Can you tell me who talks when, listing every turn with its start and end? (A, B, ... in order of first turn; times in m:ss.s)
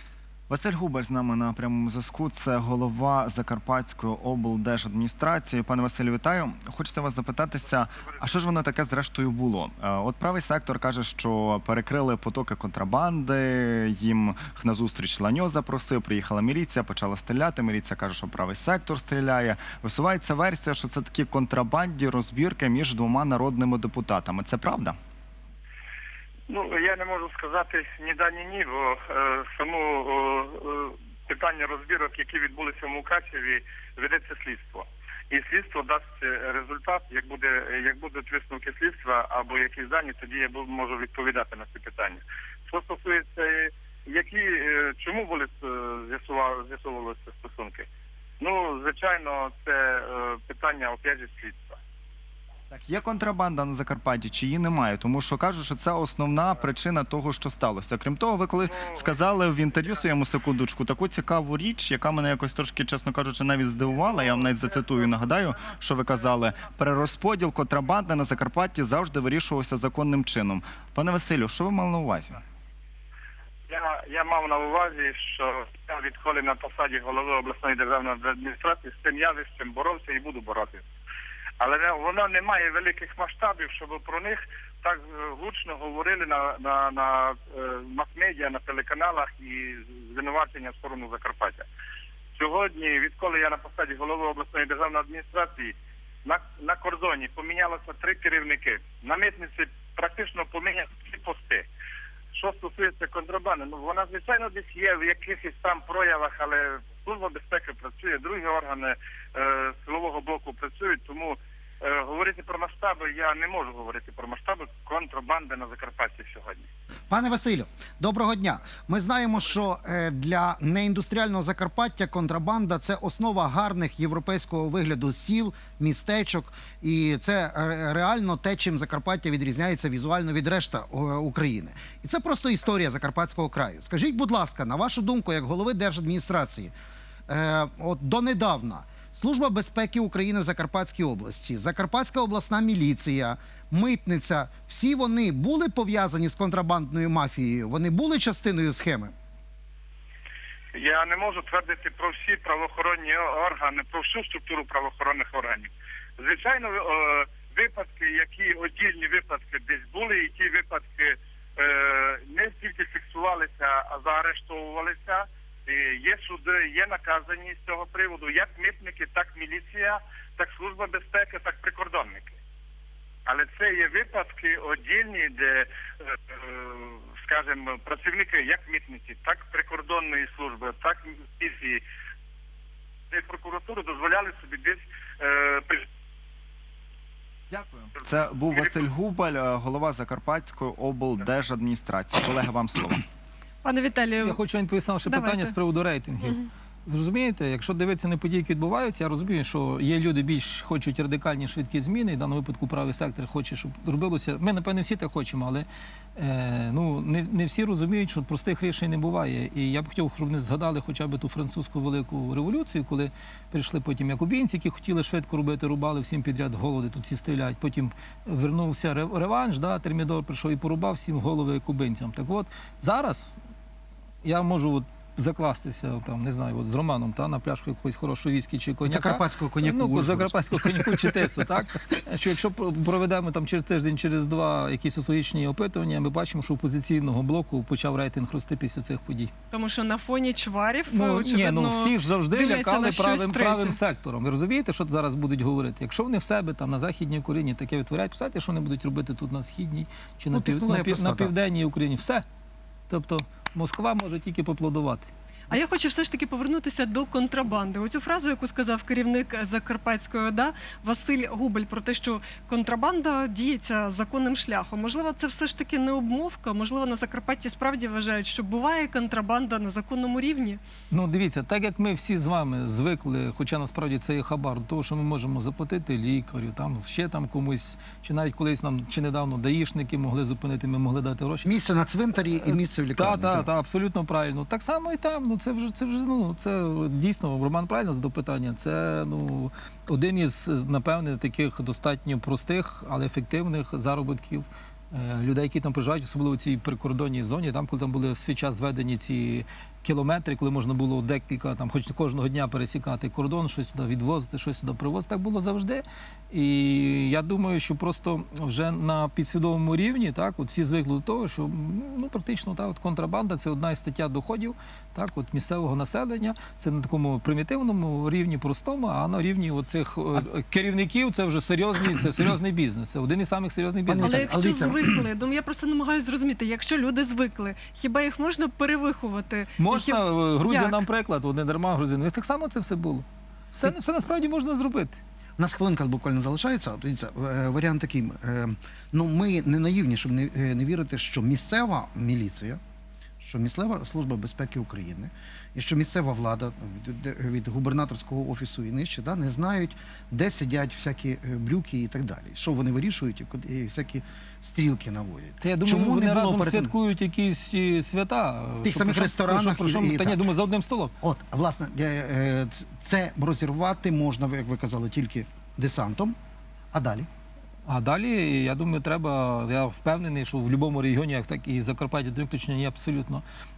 0:00.5-0:25.0 A
0:26.5-0:47.9 B
0:48.4-0:51.8 B
0:52.7-1:12.4 A
1:13.7-1:20.8 B
1:21.6-1:31.6 B
1:32.4-1:41.6 B
1:42.3-1:56.7 B
1:57.1-2:16.7 C
2:17.3-2:29.1 C
2:30.7-2:52.4 B
2:53.2-3:01.8 B
3:03.1-3:05.8 B
3:07.5-3:13.0 A
3:13.6-3:14.4 D
3:14.2-3:43.4 E
3:15.0-3:15.5 D
3:16.2-3:16.5 D
3:44.2-3:59.3 E
3:48.8-3:51.4 C
3:59.5-4:03.8 D
4:00.9-4:12.2 E
4:10.3-4:11.3 C
4:12.9-4:15.1 E
4:15.5-4:30.6 D
4:30.9-4:41.5 E
4:41.4-4:43.5 C
4:42.4-5:24.4 E
5:23.9-5:25.0 C
5:24.0-5:30.8 D
5:29.6-5:35.0 E
5:35.4-5:42.6 C
5:43.2-5:56.7 C
5:55.4-6:00.9 E
5:58.6-6:00.3 C
6:01.0-6:06.2 C
6:06.7-6:07.1 C
6:07.7-6:13.2 E